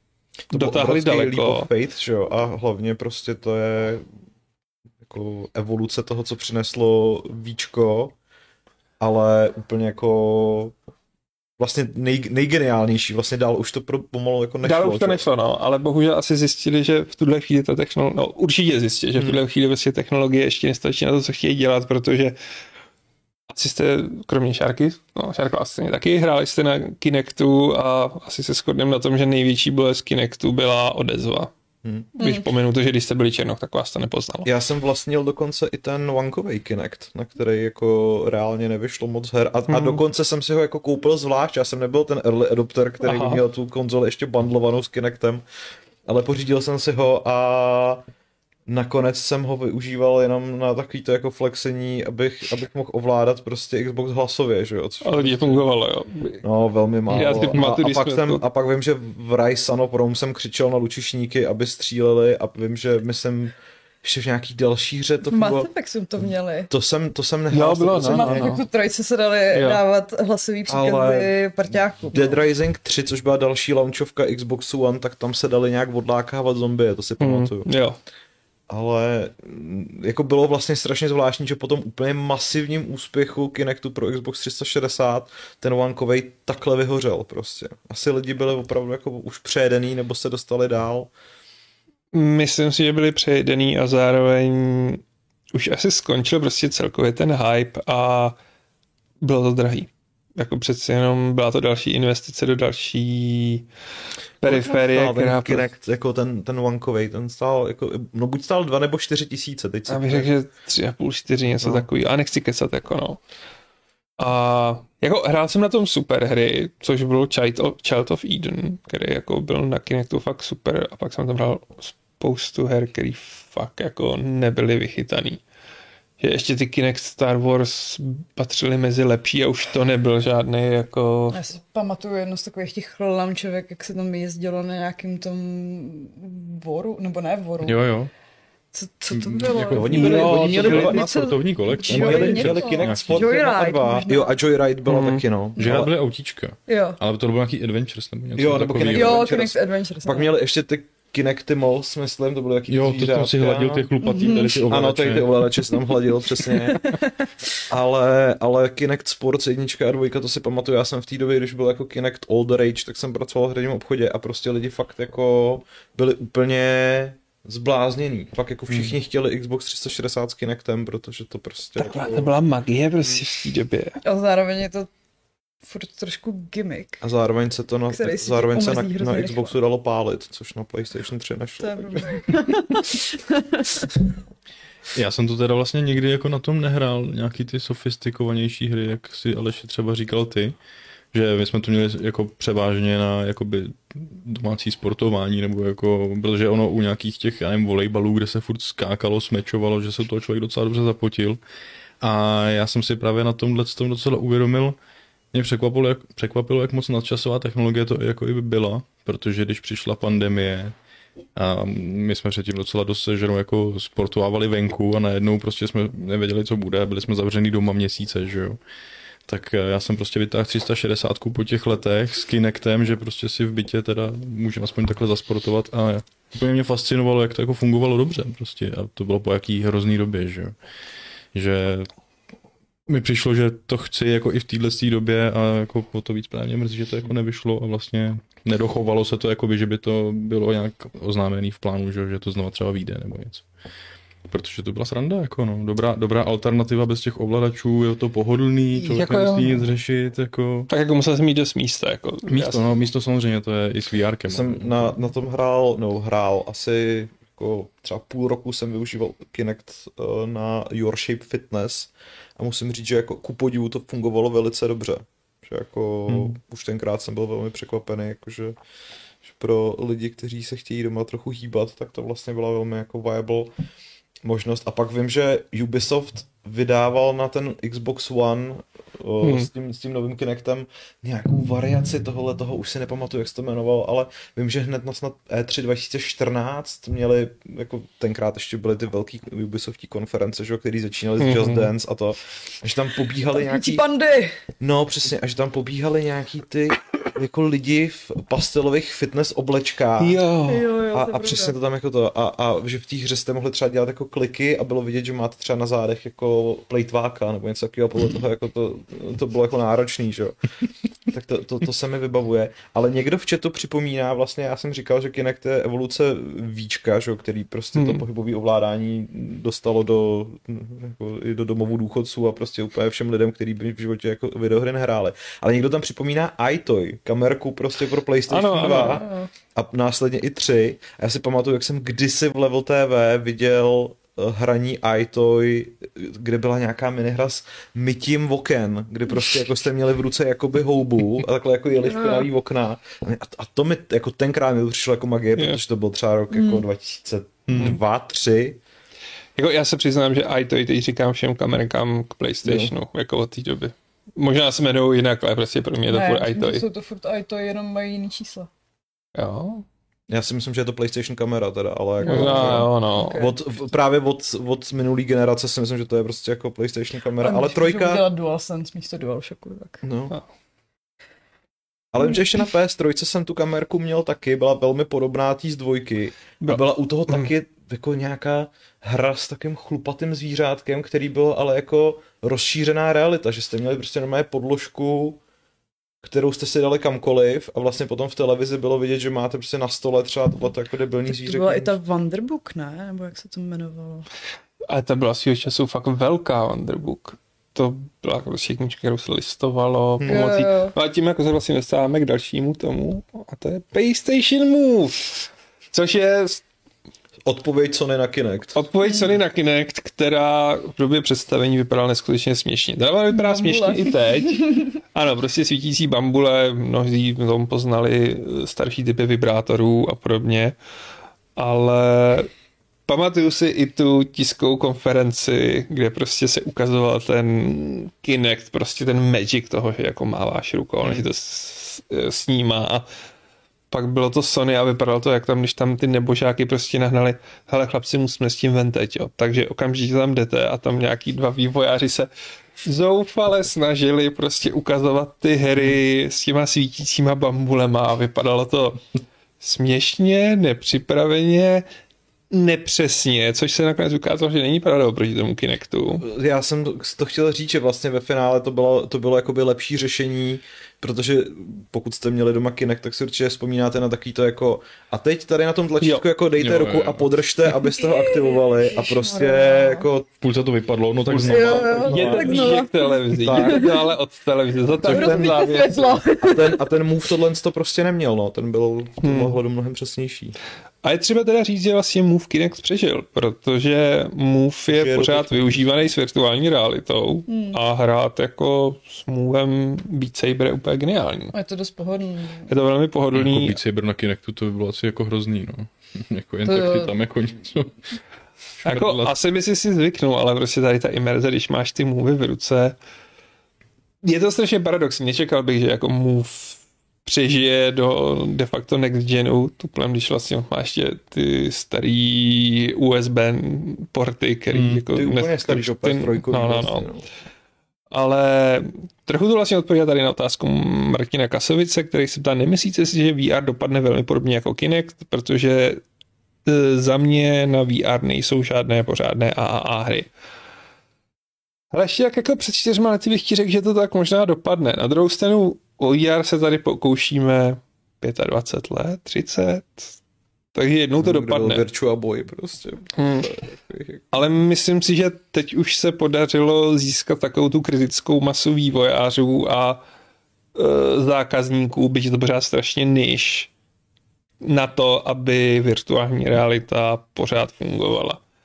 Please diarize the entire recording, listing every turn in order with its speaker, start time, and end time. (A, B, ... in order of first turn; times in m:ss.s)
0:00.5-0:04.0 A
0:00.5-0:01.7 B
0:05.0-0:08.1 A
0:09.0-0:10.8 A
0:11.6-0:15.2 A
0:14.6-0:22.4 B
0:23.5-0:31.5 B
0:32.2-0:34.5 B
0:32.2-0:32.5 C
0:34.4-0:45.4 A
0:39.7-0:40.0 B
0:43.0-0:43.4 B
0:46.1-0:48.0 A
0:48.7-0:55.6 A
0:55.0-0:56.4 B
0:56.4-1:05.7 A
0:57.1-0:57.6 D
0:57.1-0:58.4 B
1:05.3-1:06.7 C
1:06.2-1:08.5 A
1:07.5-1:08.6 B
1:08.0-1:12.4 C
1:09.5-1:09.8 B
1:10.7-1:11.4 A
1:12.0-1:17.7 A
1:17.2-1:18.0 B
1:18.7-1:31.1 A
1:32.1-1:38.4 B
1:39.2-1:43.7 B
1:44.4-1:50.3 A
1:44.4-1:45.8 B
1:49.9-1:53.2 B
1:51.6-1:51.9 A
1:54.2-2:05.4 B
2:06.2-2:11.4 B
2:11.3-2:17.9 C
2:17.6-2:18.1 D
2:18.7-2:24.3 C
2:19.1-2:23.3 D
2:19.7-2:25.9 A
2:19.9-2:20.8 B
2:24.9-2:25.2 B
2:25.6-2:29.3 D
2:26.7-2:27.0 C
2:28.4-2:33.9 A
2:28.9-2:30.3 C
2:32.7-2:35.5 D
2:34.0-2:34.6 C
2:34.6-2:36.9 A
2:36.4-2:37.3 C
2:37.7-2:52.3 A
2:51.8-2:54.0 B
2:54.0-2:54.9 C
2:55.6-2:57.0 C
2:57.0-3:02.2 A
2:57.9-2:59.5 C
3:01.6-3:03.9 C
3:04.9-3:10.6 D
3:11.1-3:21.4 D
3:22.0-3:24.8 D
3:25.3-3:30.8 D
3:31.4-3:38.6 D
3:39.3-3:50.6 D
3:51.3-3:51.9 D
3:52.9-4:03.4 D
4:04.3-4:10.7 D
4:08.8-4:09.7 B
4:10.7-4:12.6 B
4:12.3-4:14.9 D
4:14.3-4:28.6 A
4:29.2-4:33.5 A
4:34.2-4:53.8 A
4:39.2-4:39.5 B
4:51.2-4:51.7 B
4:53.3-4:54.4 C
4:54.6-5:00.2 A
5:00.0-5:00.7 B
5:00.5-5:01.6 C
5:00.9-5:10.4 A
5:11.1-5:48.6 A
5:17.8-5:18.0 B
5:28.3-5:29.0 B
5:28.6-5:29.3 C
5:41.9-5:42.3 C
5:45.4-5:45.6 B
5:46.3-5:46.6 C
5:47.5-5:47.8 D
5:49.4-5:56.6 B
5:52.4-5:52.7 A
5:55.9-5:58.5 C
5:59.2-5:59.6 B
6:00.1-6:08.0 A
6:02.0-6:03.4 C
6:02.0-6:03.2 B
6:07.2-6:09.8 C
6:09.8-6:10.2 A
6:11.9-6:25.2 A
6:26.0-6:31.7 A
6:31.1-6:34.1 C
6:34.7-6:46.4 B
6:40.0-6:40.3 A
6:40.1-6:40.8 C
6:47.2-6:48.6 A
6:48.6-7:00.6 B
6:48.8-6:49.1 C
6:53.1-6:54.7 C
7:01.4-7:02.3 B
7:02.9-7:12.9 B
7:13.7-7:22.1 B
7:22.6-7:28.8 B
7:29.4-7:31.7 B
7:32.3-7:36.0 B
7:36.0-7:50.1 A
7:46.4-7:47.1 D
7:47.7-7:49.9 C
7:50.2-7:52.5 D
7:51.1-7:56.0 B
7:51.2-7:53.9 C
7:51.3-7:52.5 A
7:53.1-7:53.8 A
7:54.8-7:55.4 A
7:54.8-7:56.6 C
7:56.2-8:00.4 A
7:59.0-7:59.4 B
8:00.8-8:11.4 B
8:04.7-8:05.7 A
8:07.3-8:07.6 C
8:11.3-8:12.5 C
8:12.5-8:13.6 B
8:13.1-8:17.8 D
8:16.4-8:16.9 C
8:18.6-8:19.2 D
8:18.6-8:22.8 B
8:24.0-8:36.9 B
8:34.5-8:34.8 D
8:34.9-8:37.0 A
8:37.9-8:45.8 B
8:46.5-8:50.1 B
8:51.7-9:00.0 B
9:00.5-9:01.7 B
9:01.0-9:04.2 A
9:03.0-9:03.3 B
9:04.1-9:09.8 B
9:10.6-9:13.5 B
9:14.4-9:18.2 B